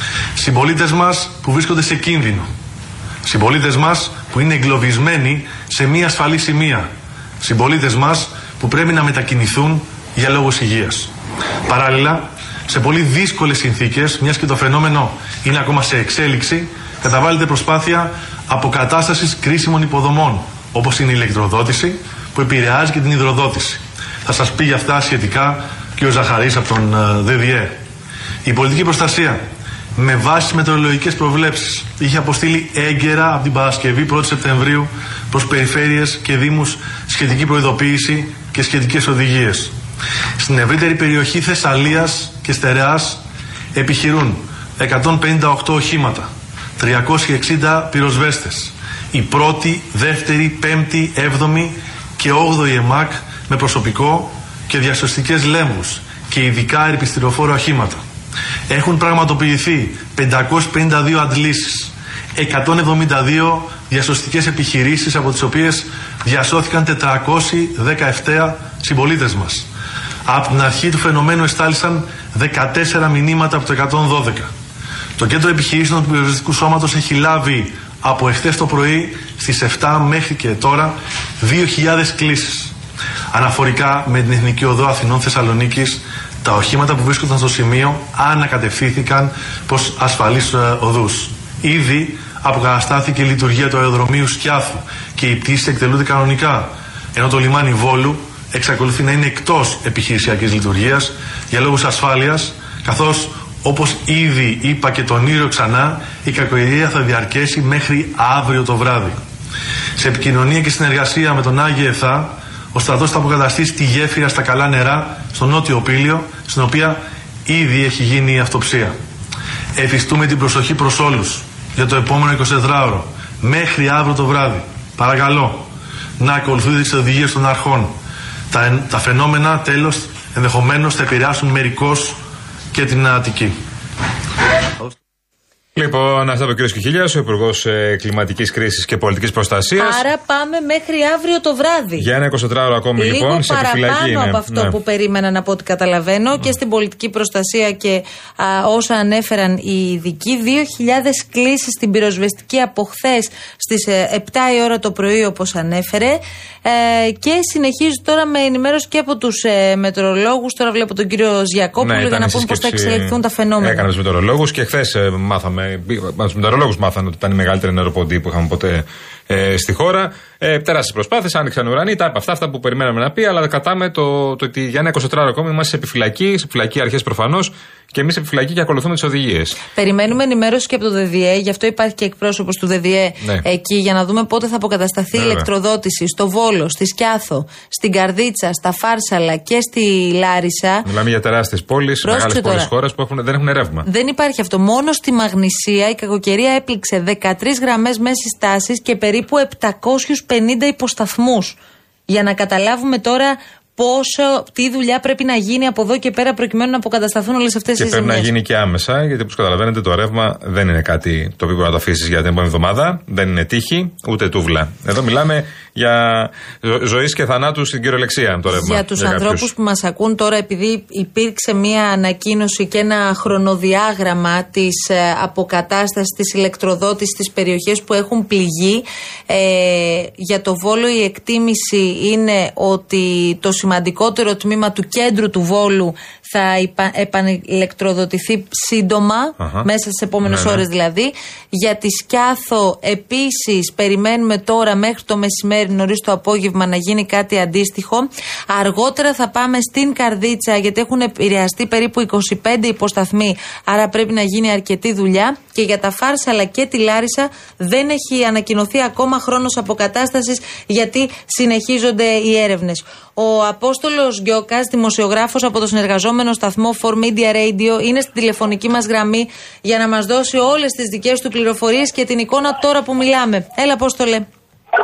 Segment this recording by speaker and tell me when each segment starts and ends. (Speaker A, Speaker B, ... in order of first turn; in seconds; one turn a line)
Speaker A: 0.4-2.5
Speaker A: 3.2-6.9
Speaker A: 7.4-11.1
Speaker A: 11.7-27.7
Speaker A: 28.4-29.4
Speaker A: 29.9-39.7
Speaker A: 40.4-43.2
Speaker A: 43.7-58.0
Speaker A: 58.7-69.7
Speaker A: 70.2-74.5
Speaker A: 75.2-82.7
Speaker A: 83.3-109.2
Speaker A: 110.0-118.9
Speaker A: 119.8-125.7
Speaker A: 126.2-127.9
Speaker A: 128.5-132.2
Speaker A: 132.7-133.5
Speaker B: 135.7-140.0
Speaker C: 139.8-142.1
Speaker B: 142.0-144.7
Speaker C: 143.0-163.9
Speaker B: 161.8-179.6
Speaker C: 179.7-190.8
Speaker B: 185.1-185.5
Speaker B: 190.8-193.9
Speaker C: 192.0-192.7
Speaker C: 193.8-201.6
Speaker C: 202.1-208.3
Speaker B: 207.8-219.5
Speaker C: 218.5-274.3
Speaker B: 239.4-239.7
Speaker B: 240.2-240.6